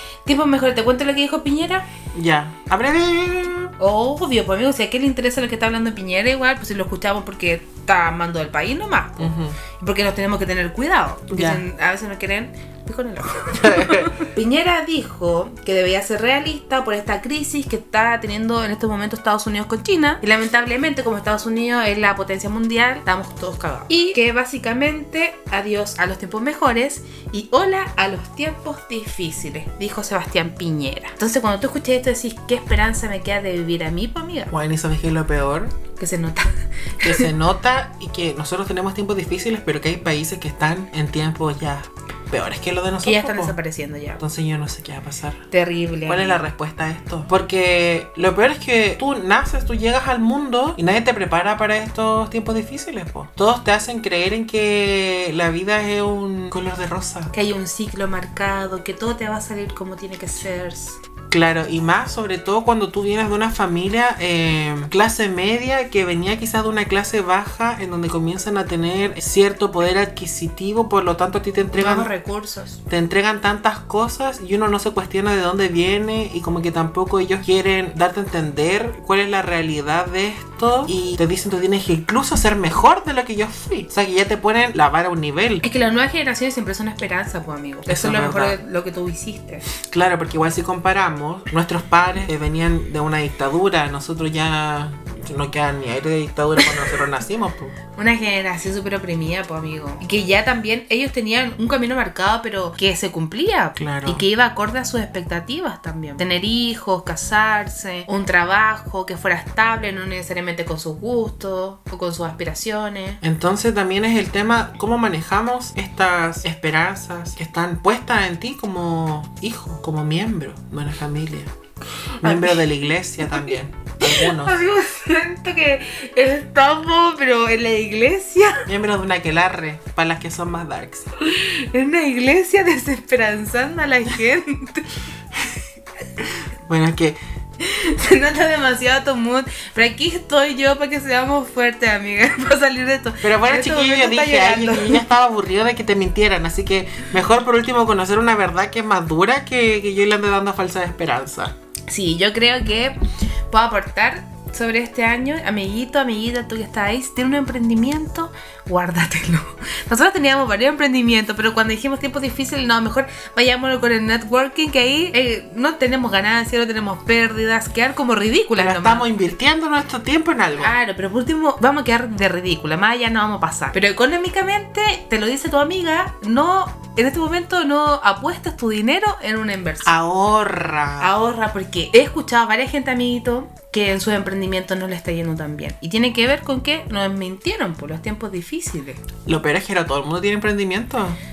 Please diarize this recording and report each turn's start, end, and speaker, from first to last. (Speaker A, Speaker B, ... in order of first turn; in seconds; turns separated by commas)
Speaker A: 0.3-1.9, Speaker B: 2.1-3.7, Speaker A: 3.8-34.5, Speaker B: 9.2-9.6, Speaker B: 11.3-11.6, Speaker B: 13.5-14.2, Speaker B: 34.5-35.8, Speaker A: 36.0-37.3, Speaker B: 37.0-43.6, Speaker A: 43.0-44.2, Speaker B: 44.2-45.4, Speaker A: 45.5-46.5, Speaker B: 46.1-57.3, Speaker A: 57.3-61.0, Speaker B: 61.3-72.1, Speaker A: 71.7-72.8, Speaker B: 72.9-85.6, Speaker A: 85.6-89.6, Speaker B: 87.9-88.6, Speaker B: 89.8-97.8, Speaker A: 98.0-113.2, Speaker B: 103.8-104.2, Speaker B: 113.2-121.5, Speaker B: 122.2-124.6, Speaker A: 122.2-122.6, Speaker A: 124.0-128.7, Speaker B: 128.7-131.1, Speaker A: 131.2-135.0, Speaker B: 136.7-137.2, Speaker A: 137.6-145.1, Speaker B: 143.2-151.5, Speaker A: 151.9-153.0, Speaker A: 153.5-169.1, Speaker B: 168.6-170.8, Speaker A: 170.6-180.0, Speaker B: 179.8-181.1, Speaker A: 181.0-189.0, Speaker B: 189.3-191.2